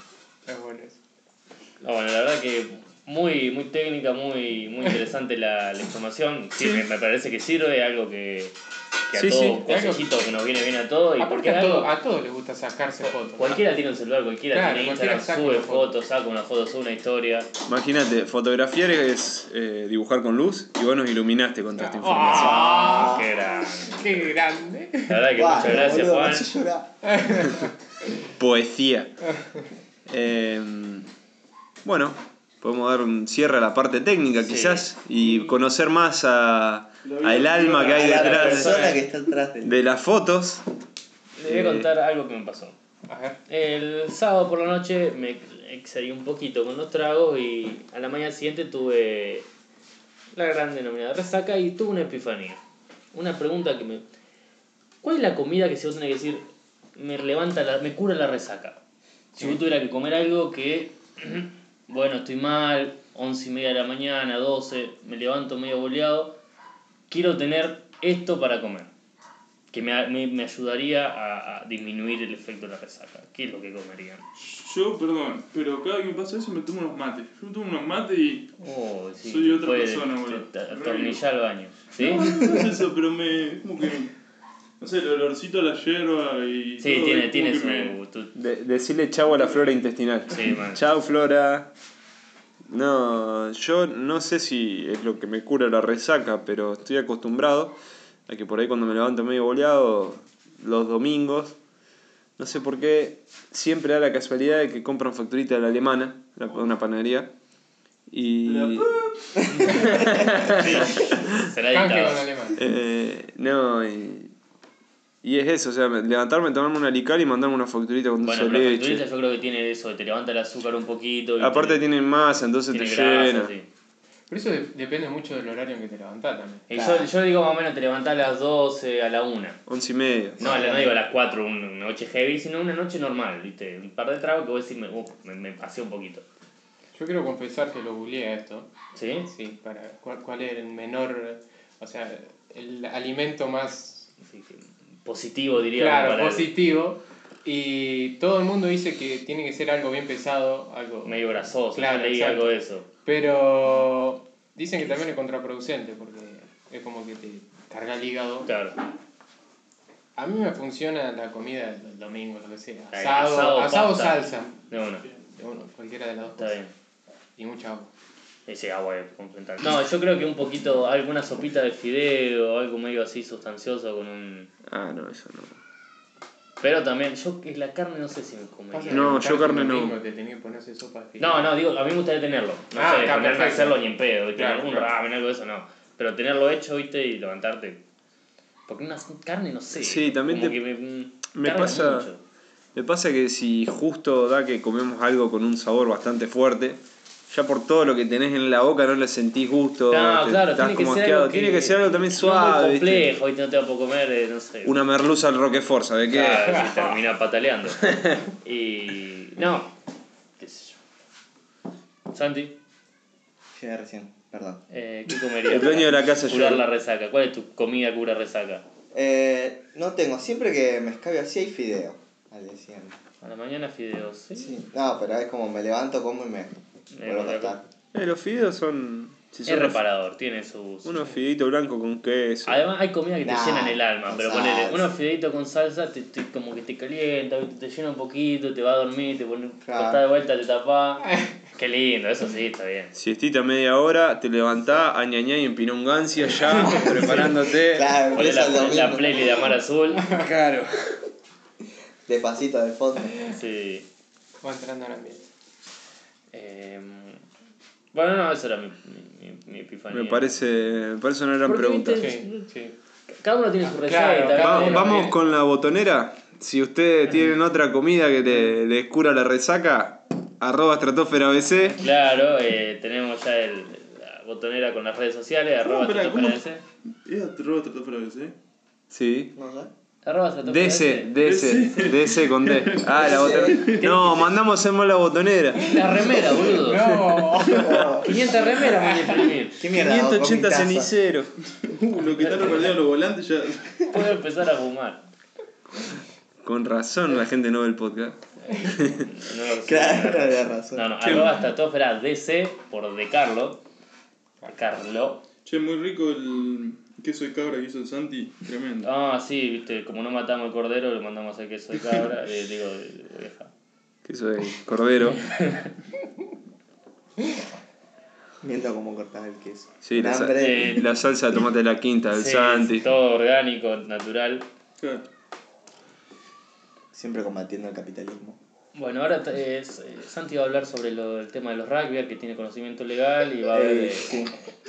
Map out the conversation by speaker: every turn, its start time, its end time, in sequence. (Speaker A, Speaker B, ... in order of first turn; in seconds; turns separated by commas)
Speaker A: 0.5-1.0, Speaker B: 1.8-8.6, Speaker B: 9.1-11.9, Speaker C: 9.1-9.6, Speaker A: 9.6-10.1, Speaker A: 11.2-13.6, Speaker B: 13.0-17.5, Speaker A: 14.5-15.9, Speaker C: 17.7-22.8, Speaker A: 21.8-25.8, Speaker B: 22.2-24.3, Speaker D: 22.8-23.2, Speaker B: 25.1-26.5, Speaker D: 25.4-26.9, Speaker A: 27.1-27.7, Speaker C: 28.4-29.1, Speaker C: 30.1-31.1, Speaker C: 31.8-38.9, Speaker B: 34.4-34.9, Speaker E: 37.0-38.4, Speaker D: 37.9-39.7, Speaker B: 38.0-39.0, Speaker C: 39.6-40.6, Speaker B: 41.4-42.8, Speaker C: 41.4-41.9, Speaker A: 43.1-43.4, Speaker B: 43.5-49.5, Speaker B: 50.3-52.6, Speaker B: 53.1-54.0, Speaker B: 55.0-58.8, Speaker B: 59.4-66.4, Speaker B: 67.1-68.9, Speaker B: 69.7-74.2, Speaker E: 74.3-78.5, Speaker B: 78.6-82.4, Speaker E: 79.2-81.2, Speaker E: 82.0-84.1, Speaker E: 84.8-88.0, Speaker B: 86.8-88.3, Speaker C: 88.3-91.7, Speaker E: 89.3-89.7, Speaker B: 90.3-90.8, Speaker C: 92.7-101.6, Speaker C: 102.4-107.3, Speaker C: 108.1-108.9, Speaker E: 108.5-109.8, Speaker B: 109.5-112.2, Speaker C: 109.7-111.3, Speaker A: 111.7-112.6, Speaker C: 112.5-114.3, Speaker C: 115.2-119.0, Speaker B: 118.2-121.8, Speaker C: 121.4-123.5, Speaker B: 122.7-123.7, Speaker A: 124.3-126.7, Speaker B: 126.7-129.6, Speaker D: 126.8-127.1, Speaker C: 129.7-130.5, Speaker B: 130.4-136.2, Speaker D: 130.4-130.9, Speaker A: 136.9-138.7, Speaker B: 138.9-139.3, Speaker A: 139.3-144.1, Speaker B: 144.2-146.5, Speaker A: 145.7-152.5, Speaker B: 151.0-152.9, Speaker A: 153.1-158.5, Speaker B: 158.4-158.8, Speaker A: 160.2-164.5, Speaker B: 162.9-165.1, Speaker A: 165.3-166.6, Speaker B: 166.4-166.7, Speaker A: 167.4-167.9, Speaker B: 168.5-174.5, Speaker C: 174.7-175.6, Speaker B: 176.6-179.2, Speaker A: 178.7-181.5, Speaker C: 178.9-180.0, Speaker B: 181.2-187.8, Speaker A: 182.8-184.9, Speaker B: 188.7-192.2, Speaker C: 189.7-190.6, Speaker C: 191.3-192.1, Speaker C: 192.8-203.1, Speaker B: 199.9-204.8, Speaker C: 204.6-206.7, Speaker B: 206.1-209.7, Speaker C: 207.8-208.2, Speaker B: 210.4-210.8, Speaker B: 212.1-212.6, Speaker D: 213.6-214.6, Speaker B: 214.7-218.6, Speaker C: 215.5-216.6, Speaker D: 218.9-223.0, Speaker B: 223.2-224.6, Speaker D: 224.4-226.5, Speaker B: 226.9-227.6, Speaker D: 227.0-227.6, Speaker C: 227.9-229.8, Speaker B: 229.5-231.1, Speaker C: 230.8-232.6, Speaker B: 232.5-242.9, Speaker D: 233.2-234.9, Speaker D: 239.7-240.0, Speaker C: 242.9-248.0, Speaker D: 247.6-249.2, Speaker B: 248.1-250.1, Speaker C: 250.1-251.0, Speaker D: 252.1-253.2, Speaker B: 253.3-253.9, Speaker A: 254.4-255.2, Speaker B: 256.3-257.2, Speaker B: 257.9-260.3, Speaker C: 259.9-262.1, Speaker B: 261.4-262.5, Speaker A: 262.0-262.7, Speaker B: 263.1-265.1, Speaker A: 263.6-265.2, Speaker C: 264.3-271.8, Speaker B: 271.8-276.6, Speaker E: 275.6-276.4, Speaker E: 277.1-278.3, Speaker C: 278.9-279.3, Speaker D: 279.4-279.7, Speaker B: 280.0-281.1, Speaker C: 280.4-285.8, Speaker E: 281.2-283.8, Speaker D: 283.0-283.7, Speaker B: 283.6-284.3, Speaker B: 285.6-287.0, Speaker A: 285.8-289.3, Speaker C: 287.1-287.9, Speaker D: 287.6-288.1, Speaker B: 288.0-289.6, Speaker D: 289.6-290.9, Speaker C: 289.7-291.3, Speaker E: 291.6-293.9, Speaker B: 292.2-292.6, Speaker B: 293.9-295.0, Speaker C: 296.4-299.1, Speaker B: 298.5-303.6, Speaker D: 299.6-301.0, Speaker B: 304.5-305.2, Speaker E: 305.5-308.9, Speaker B: 308.8-313.5, Speaker C: 314.1-315.2, Speaker B: 315.1-315.7, Speaker D: 318.4-320.7, Speaker C: 319.8-322.9, Speaker B: 320.4-320.8, Speaker B: 322.1-324.5, Speaker E: 324.8-325.1, Speaker D: 326.9-328.4, Speaker B: 328.7-334.3, Speaker D: 333.5-334.3